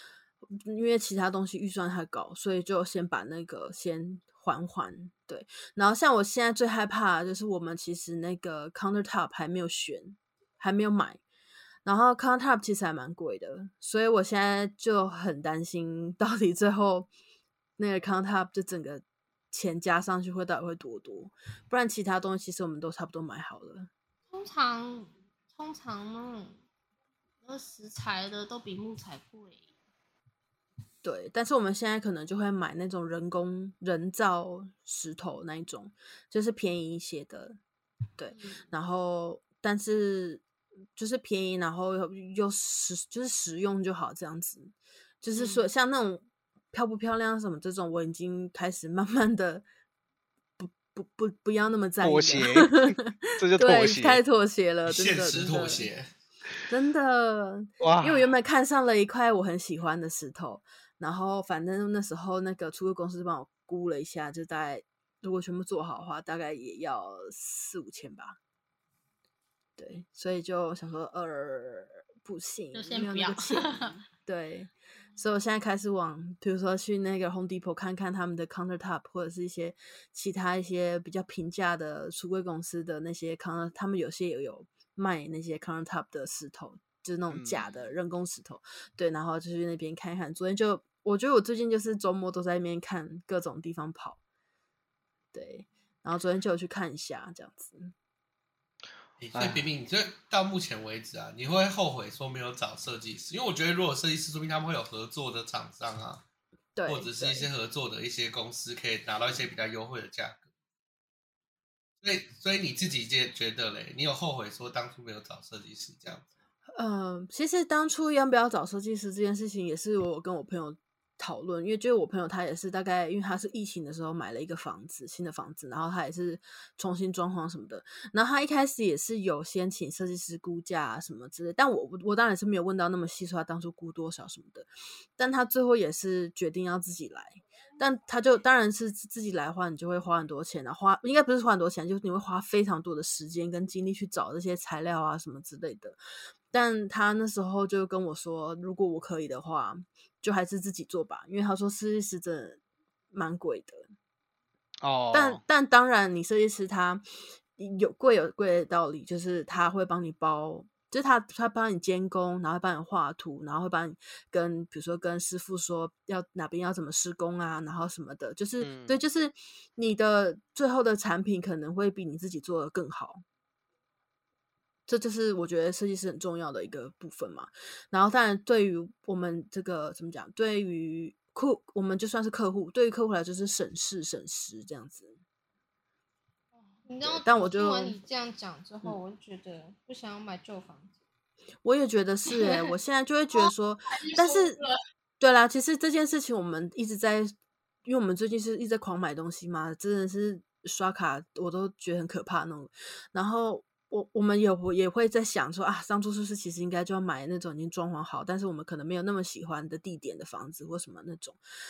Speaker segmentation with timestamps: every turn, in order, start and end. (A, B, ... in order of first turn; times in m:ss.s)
0:00.6-0:11.2 A
0:11.8-0:17.1 A
0:17.8-0:23.9 A
0:24.3-0:26.6 B
0:27.4-0:29.6 B
0:31.0-0:37.6 A
0:38.2-0:40.4 A
0:38.3-0:38.6 B
0:41.0-0:49.6 A
0:45.4-0:45.6 B
0:50.6-0:55.9 A
0:52.0-0:54.2 C
0:54.9-0:56.1 D
0:56.7-1:08.4 A
0:57.8-0:58.3 C
1:09.8-1:34.2 A
1:12.7-1:14.0 B
1:27.3-1:27.6 C
1:27.6-1:27.9 B
1:35.3-1:37.9 A
1:39.2-1:46.2 D
1:39.4-1:39.7 C
1:46.8-1:47.5 A
1:46.9-1:50.4 D
1:52.0-1:56.3 D
1:56.8-2:26.0 A
2:26.5-2:32.6 A
2:33.1-2:33.9 A
2:34.8-2:35.4 C
2:35.1-2:37.0 A
2:37.6-2:53.2 A
2:48.6-2:49.0 C
2:54.9-3:05.2 A
3:06.6-3:10.9 B
3:07.0-3:08.0 A
3:11.6-3:14.6 A
3:12.3-3:12.7 B
3:13.3-3:14.8 B
3:15.2-3:17.3 A
3:17.8-3:31.4 A